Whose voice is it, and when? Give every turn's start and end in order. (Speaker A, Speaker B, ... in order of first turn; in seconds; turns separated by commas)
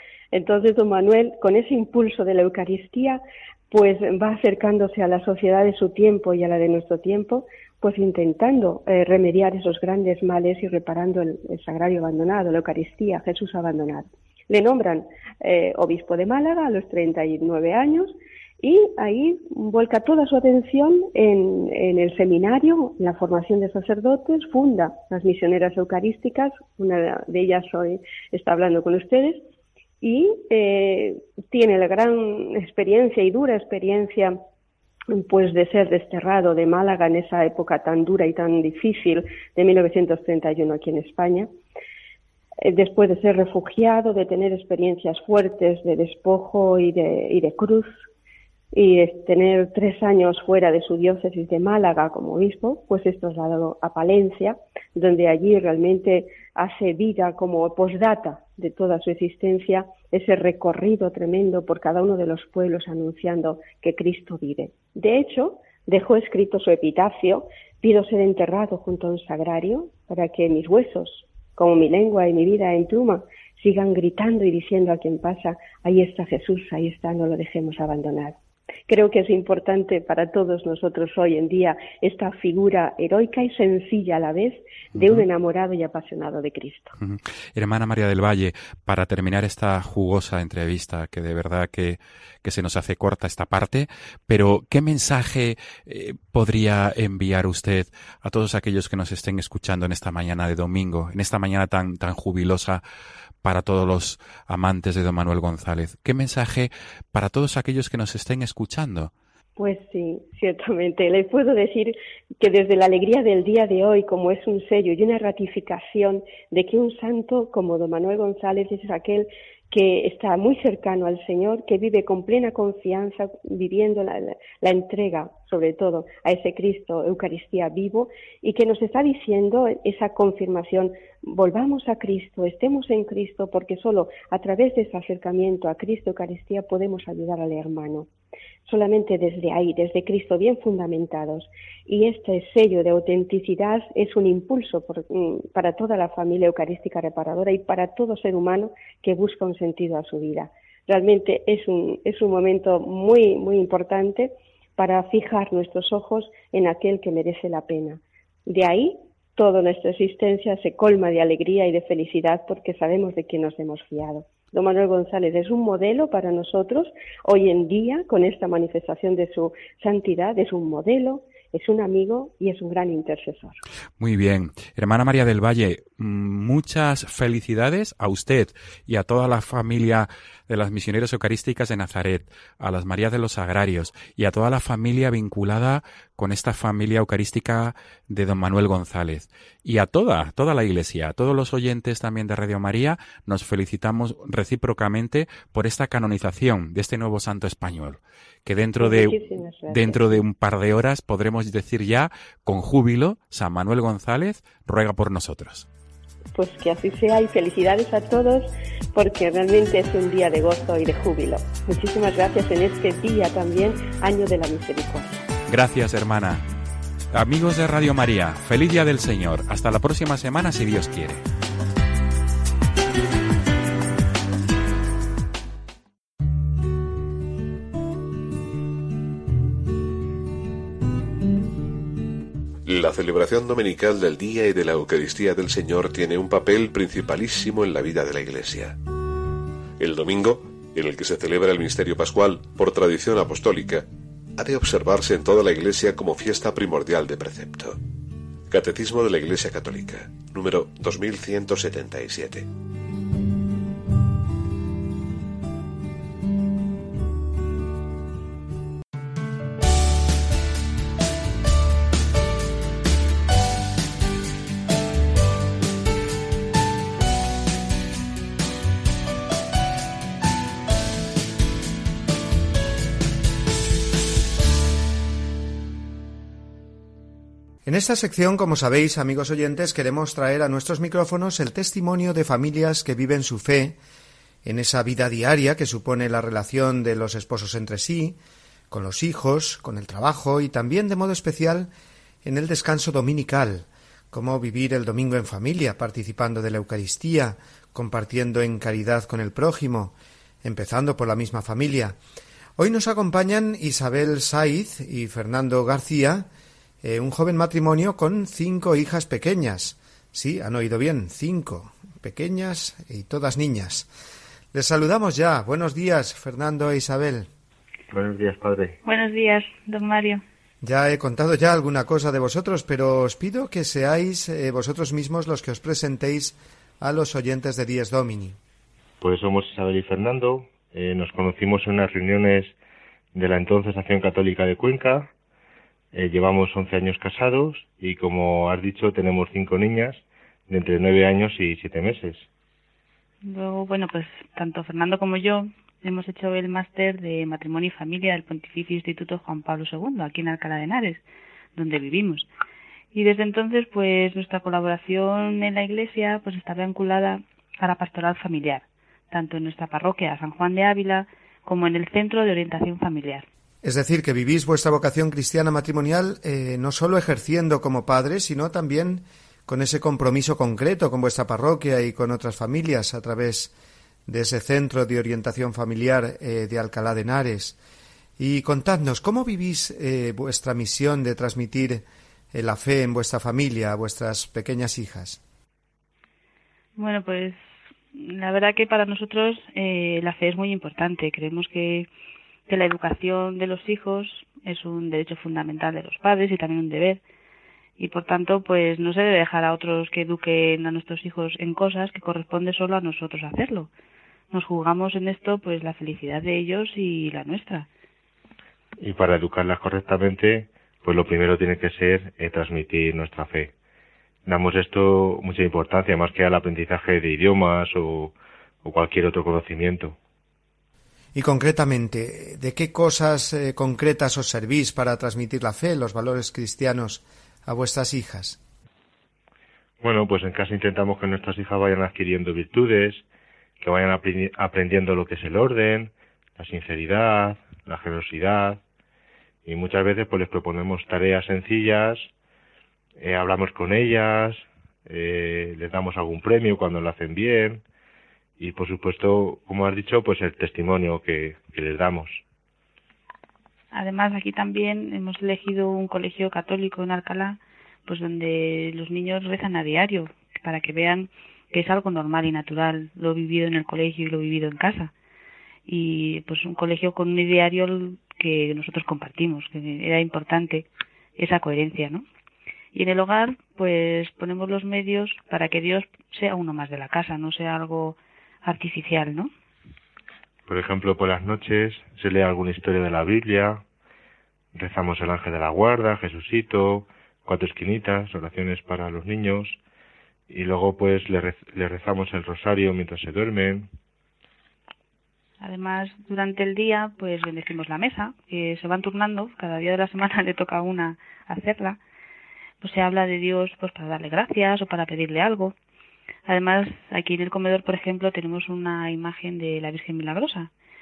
Speaker A: 0.3-29.4, Speaker A: 30.0-34.4, Speaker A: 35.1-41.5, Speaker A: 42.6-47.9, Speaker A: 48.7-78.3, Speaker A: 78.9-86.9, Speaker B: 84.9-85.3, Speaker B: 87.0-102.8, Speaker B: 103.4-109.1, Speaker A: 109.6-138.1, Speaker A: 138.7-173.6, Speaker B: 174.0-199.2, Speaker A: 198.8-200.2, Speaker B: 199.7-205.7, Speaker A: 206.3-215.2, Speaker B: 215.5-216.4, Speaker B: 217.1-221.2, Speaker C: 232.6-238.8, Speaker C: 239.8-247.8, Speaker C: 248.5-252.5, Speaker D: 277.6-283.8, Speaker D: 284.4-288.2, Speaker D: 288.7-291.7, Speaker D: 292.2-302.0, Speaker D: 302.6-306.3, Speaker D: 306.8-313.9, Speaker D: 314.5-317.3, Speaker E: 317.9-318.8, Speaker F: 318.8-320.2, Speaker D: 320.6-328.4, Speaker E: 329.0-332.5, Speaker E: 333.1-335.1, Speaker E: 335.9-342.3, Speaker F: 343.2-351.0, Speaker F: 351.5-352.3, Speaker F: 352.9-363.2, Speaker D: 363.6-373.5, Speaker D: 374.1-377.6, Speaker D: 378.2-385.2, Speaker F: 386.8-387.4, Speaker F: 387.9-391.9, Speaker F: 392.5-397.0, Speaker F: 397.8-403.7, Speaker F: 404.3-407.7, Speaker E: 408.8-413.5, Speaker E: 414.2-419.9, Speaker D: 421.1-428.4, Speaker E: 429.8-433.0, Speaker E: 433.6-438.6, Speaker E: 439.4-442.1, Speaker E: 443.0-447.6, Speaker E: 448.4-452.2, Speaker F: 453.7-464.9, Speaker F: 465.7-470.7, Speaker F: 471.2-472.0, Speaker F: 472.7-479.3, Speaker E: 480.5-483.6, Speaker E: 484.5-489.6, Speaker E: 490.3-493.7, Speaker F: 495.4-501.8, Speaker F: 502.6-505.5, Speaker F: 506.3-510.5